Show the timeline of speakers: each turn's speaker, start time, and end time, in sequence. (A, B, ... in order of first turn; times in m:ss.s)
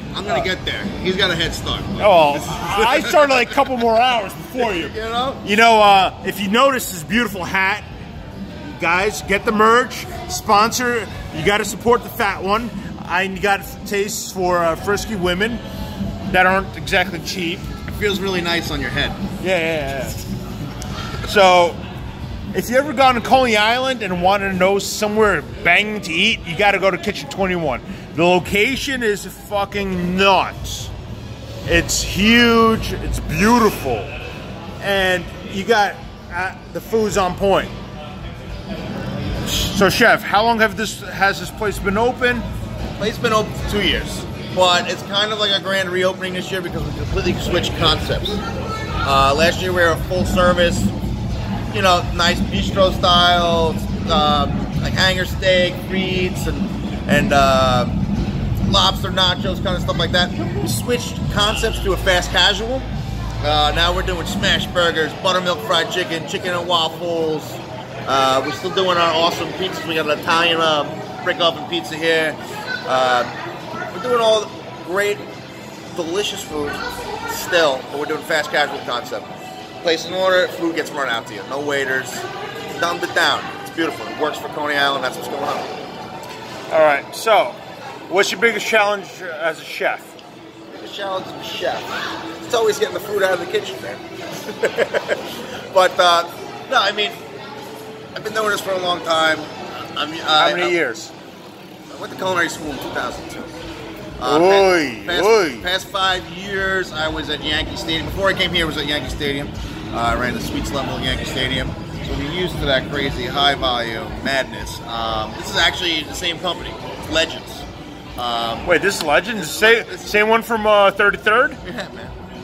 0:00.1-0:03.5 A
0:02.0-0:07.8 B
0:04.6-0:05.4 A
0:08.6-0:15.6 B
0:16.3-0:17.7 B
0:17.9-0:19.2 A
0:19.4-0:20.2 B
0:21.2-0:21.8 B
0:22.5-0:30.9 B
0:31.6-0:34.1 B
0:34.8-0:37.7 B
0:39.4-0:42.4 B
0:43.0-0:48.4 A
0:49.0-0:50.9 A
0:51.7-0:58.0 A
0:58.6-1:02.9 A
1:03.4-1:13.3 A
1:13.9-1:15.3 A
1:15.9-1:19.3 A
1:19.8-1:25.7 A
1:26.7-1:27.6 B
1:28.1-1:30.1 B
1:30.7-1:37.2 A
1:38.2-1:40.8 A
1:40.4-1:41.1 B
1:41.9-1:43.5 A
1:44.2-1:57.6 A
1:44.2-1:45.7 B
1:58.2-1:58.7 A
1:58.6-2:01.6 B
1:59.3-2:00.2 A
2:01.6-2:02.1 A